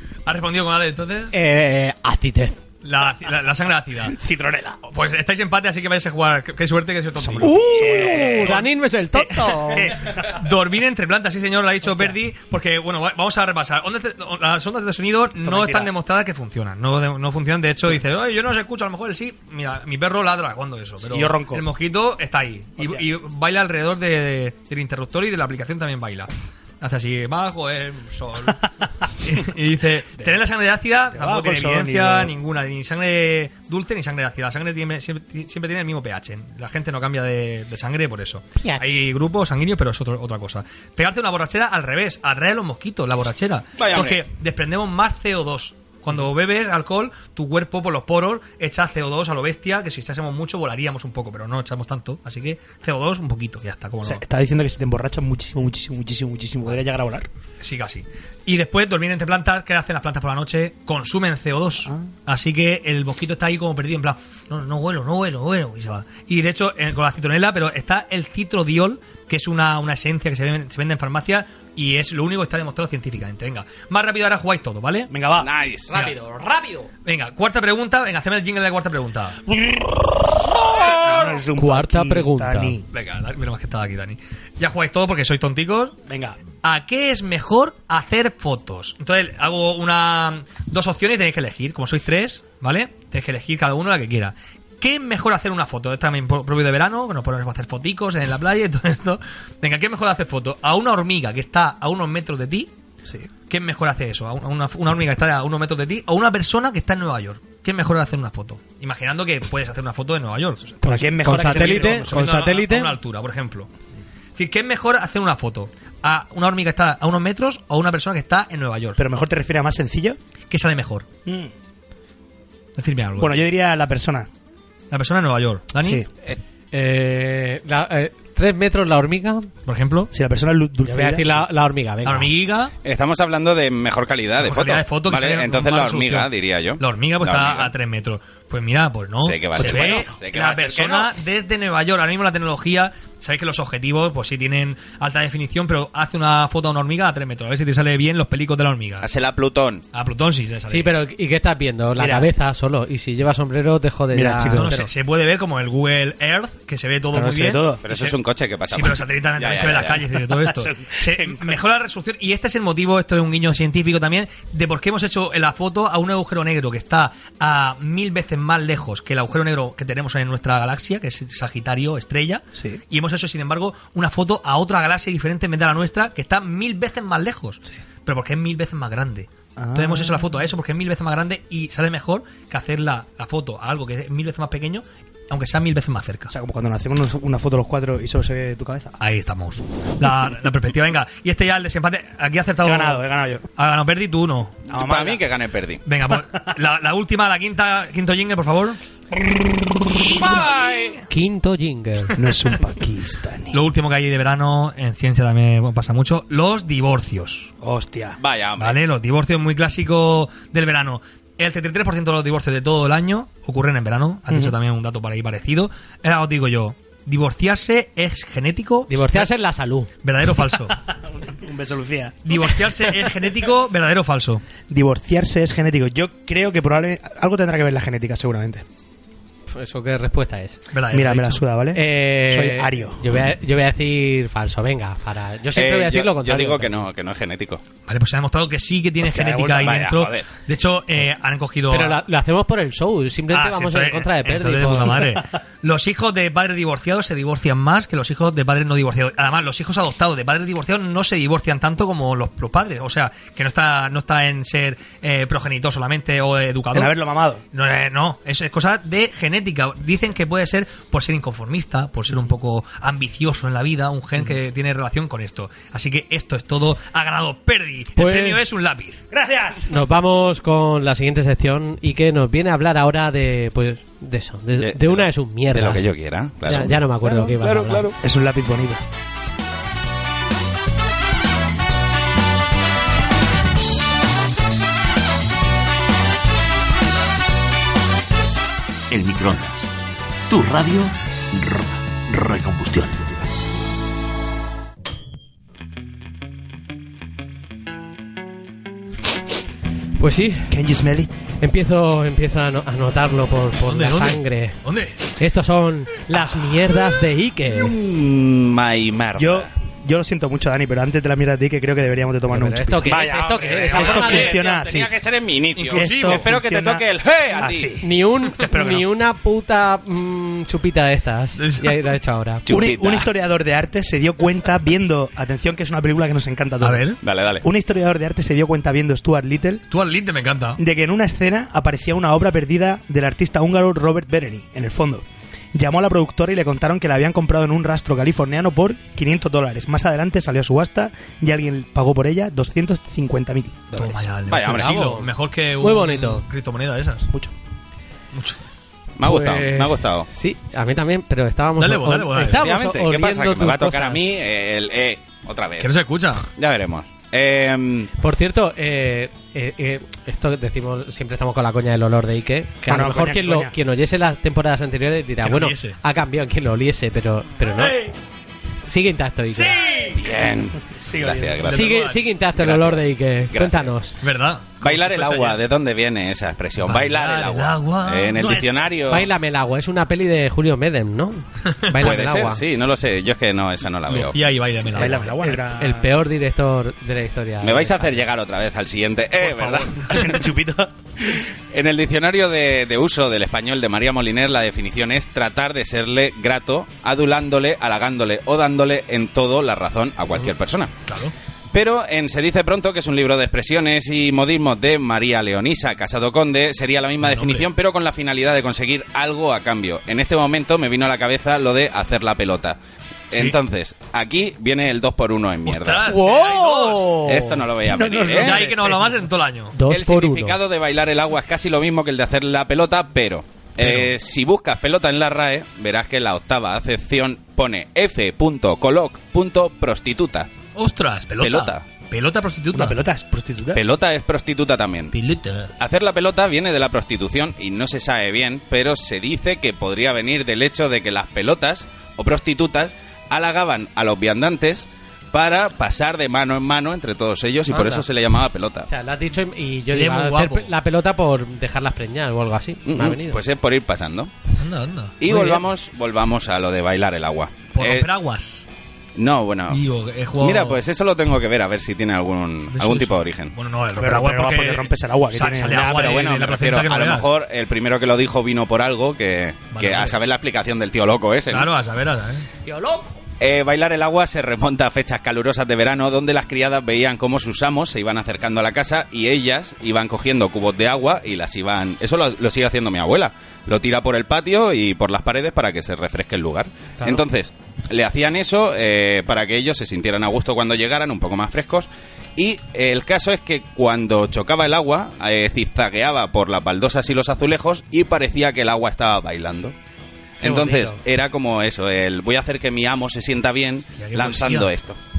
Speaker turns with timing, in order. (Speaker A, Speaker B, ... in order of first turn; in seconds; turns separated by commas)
Speaker A: 0.2-1.3, Speaker B: 1.3-2.6, Speaker A: 2.8-4.2, Speaker C: 4.0-4.8, Speaker A: 4.9-54.2, Speaker C: 7.2-8.6, Speaker B: 7.4-9.9, Speaker C: 9.6-10.3, Speaker C: 11.8-12.2, Speaker C: 15.4-15.9, Speaker C: 21.0-21.6, Speaker C: 31.1-32.4, Speaker D: 43.8-44.2, Speaker C: 54.0-57.3, Speaker A: 57.6-75.1, Speaker C: 75.1-75.5, Speaker D: 75.4-75.9, Speaker B: 75.9-76.9, Speaker A: 77.0-79.4, Speaker C: 79.5-82.9, Speaker B: 81.5-82.8, Speaker A: 82.9-86.0, Speaker C: 86.1-86.4, Speaker A: 86.6-102.7, Speaker A: 103.5-113.7, Speaker C: 110.8-112.3, Speaker B: 110.8-112.9, Speaker A: 114.3-119.0, Speaker C: 119.0-120.2, Speaker A: 120.5-121.0, Speaker C: 121.2-121.5, Speaker A: 122.8-123.4, Speaker C: 123.2-124.3, Speaker A: 124.9-126.0, Speaker C: 125.8-126.1, Speaker B: 126.2-129.5, Speaker A: 129.7-130.1, Speaker C: 130.1-131.4, Speaker B: 130.9-132.3, Speaker A: 132.0-132.7, Speaker D: 132.8-137.7, Speaker A: 134.4-149.1, Speaker D: 139.2-141.1, Speaker C: 139.6-140.1, Speaker D: 149.0-149.8, Speaker A: 149.9-150.9, Speaker B: 150.7-154.9, Speaker C: 151.9-152.3, Speaker C: 154.1-154.8, Speaker A: 154.5-158.1, Speaker C: 157.1-158.0, Speaker D: 157.8-160.0, Speaker A: 158.7-186.3, Speaker C: 160.3-161.7, Speaker C: 172.6-172.8, Speaker C: 179.6-180.3, Speaker C: 186.3-188.9, Speaker A: 189.0-193.0, Speaker C: 192.6-193.5, Speaker A: 193.6-194.6, Speaker C: 194.7-195.3, Speaker D: 194.7-195.8, Speaker A: 195.9-198.8, Speaker C: 199.1-200.2, Speaker D: 199.9-201.0, Speaker B: 201.1-202.2, Speaker C: 202.2-203.6, Speaker A: 203.5-207.5, Speaker C: 207.6-208.2, Speaker D: 208.2-208.8, Speaker A: 208.6-219.3, Speaker C: 214.3-214.5, Speaker B: 218.9-219.9, Speaker A: 220.0-220.8, Speaker C: 220.9-223.1, Speaker A: 222.2-224.4, Speaker C: 224.7-228.6, Speaker B: 229.5-230.6, Speaker A: 230.7-231.4, Speaker C: 230.9-233.1, Speaker B: 231.7-236.9, Speaker D: 235.5-237.6, Speaker A: 237.9-242.0, Speaker C: 239.0-239.8, Speaker D: 239.6-240.3, Speaker B: 241.7-245.0, Speaker A: 243.3-257.0, Speaker C: 256.7-257.4, Speaker A: 257.5-269.0, Speaker B: 268.0-268.4, Speaker C: 269.1-269.8, Speaker B: 269.7-275.9, Speaker D: 274.6-277.9, Speaker B: 276.4-277.9, Speaker C: 278.0-278.8, Speaker E: 288.9-289.7, Speaker E: 290.3-293.4, Speaker B: 300.0-300.6, Speaker C: 300.5-301.1, Speaker B: 301.4-307.7, Speaker A: 303.6-305.0, Speaker D: 307.5-309.5, Speaker C: 309.1-313.0, Speaker B: 312.3-314.4, Speaker D: 312.8-317.8, Speaker A: 313.5-314.2, Speaker C: 313.7-314.9, Speaker A: 315.6-316.3, Speaker C: 315.7-318.9, Speaker B: 317.8-322.4, Speaker A: 321.4-321.7, Speaker D: 322.5-323.1, Speaker C: 322.5-329.6, Speaker A: 326.6-327.0, Speaker D: 327.0-327.4, Speaker A: 329.7-330.6, Speaker C: 330.6-344.1, Speaker A: 343.7-347.1, Speaker D: 344.3-344.8, Speaker B: 344.4-346.2, Speaker A: 348.1-348.4, Speaker D: 349.0-350.1, Speaker B: 349.0-354.1, Speaker A: 351.6-352.5, Speaker D: 352.2-355.7, Speaker A: 355.6-356.3, Speaker D: 356.4-357.9, Speaker B: 358.0-367.9, Speaker C: 362.6-363.5, Speaker A: 365.2-365.8, Speaker A: 367.6-367.9, Speaker B: 368.7-369.6, Speaker A: 369.3-370.0, Speaker D: 369.9-371.8, Speaker C: 370.6-371.5, Speaker A: 371.4-372.0, Speaker B: 371.5-374.0, Speaker D: 372.4-373.7, Speaker A: 374.0-375.4, Speaker D: 374.6-379.1, Speaker A: 376.6-378.5, Speaker B: 378.9-382.4, Speaker D: 381.8-384.2, Speaker A: 383.9-385.2, Speaker C: 384.7-385.9, Speaker B: 385.2-388.1, Speaker D: 387.4-390.1, Speaker A: 389.2-390.0, Speaker C: 389.9-391.2, Speaker D: 391.5-400.7, Speaker A: 400.9-401.1, Speaker D: 401.5-412.6, Speaker A: 407.0-407.5, Speaker D: 413.1-416.0, Speaker A: 415.4-417.1, Speaker C: 415.9-418.9, Speaker B: 416.0-416.4, Speaker D: 417.0-418.4, Speaker A: 418.1-419.6, Speaker B: 419.5-420.4, Speaker D: 419.7-430.3, Speaker A: 423.6-423.9, Speaker A: 430.5-432.8, Speaker D: 431.2-431.6, Speaker C: 432.5-433.6, Speaker D: 433.5-434.9, Speaker A: 434.9-435.5, Speaker D: 435.6-448.7, Speaker B: 447.5-447.9, Speaker B: 448.7-453.2, Speaker A: 449.7-450.5, Speaker D: 452.6-454.1, Speaker A: 454.4-455.0, Speaker D: 455.0-457.9, Speaker B: 455.1-455.4, Speaker A: 457.5-458.4, Speaker D: 458.9-459.6, Speaker A: 459.5-460.6, Speaker D: 460.2-463.3, Speaker A: 462.5-467.1, Speaker C: 463.8-465.7, Speaker D: 465.4-471.5, Speaker A: 469.5-470.0, Speaker A: 471.3-472.3, Speaker B: 472.4-473.0, Speaker D: 473.2-499.5, Speaker D: 500.2-504.8, Speaker B: 500.2-500.8, Speaker A: 503.8-504.5